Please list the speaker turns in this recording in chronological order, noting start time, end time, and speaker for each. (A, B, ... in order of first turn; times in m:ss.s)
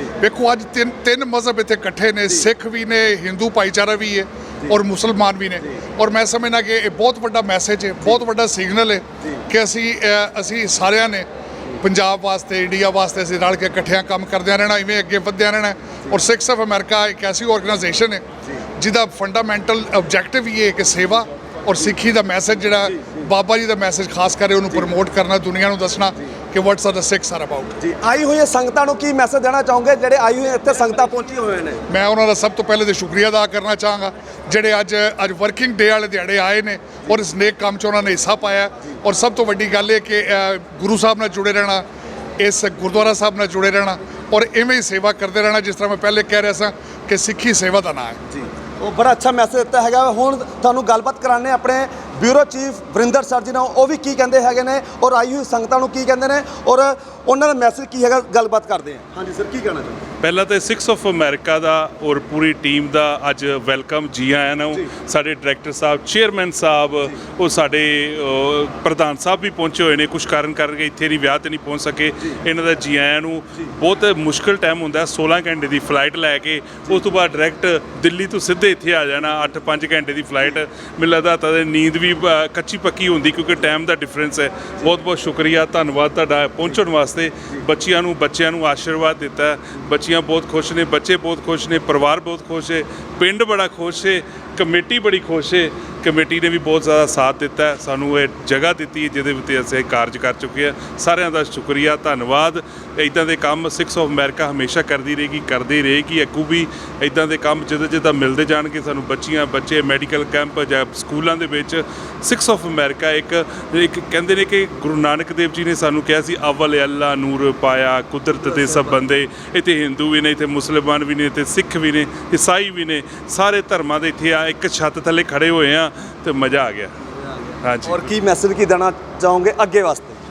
0:00.2-0:11.3 A
0:11.8-0:18.2 A
0:18.8-0:27.7 A
0:22.9-0:23.2 B
0:27.8-0:31.8 B
0:31.9-0:41.8 A
0:42.4-0:48.2 A
0:48.3-1:00.0 B
1:00.2-2:06.9 C
2:07.6-2:08.1 C
2:07.8-2:10.2 B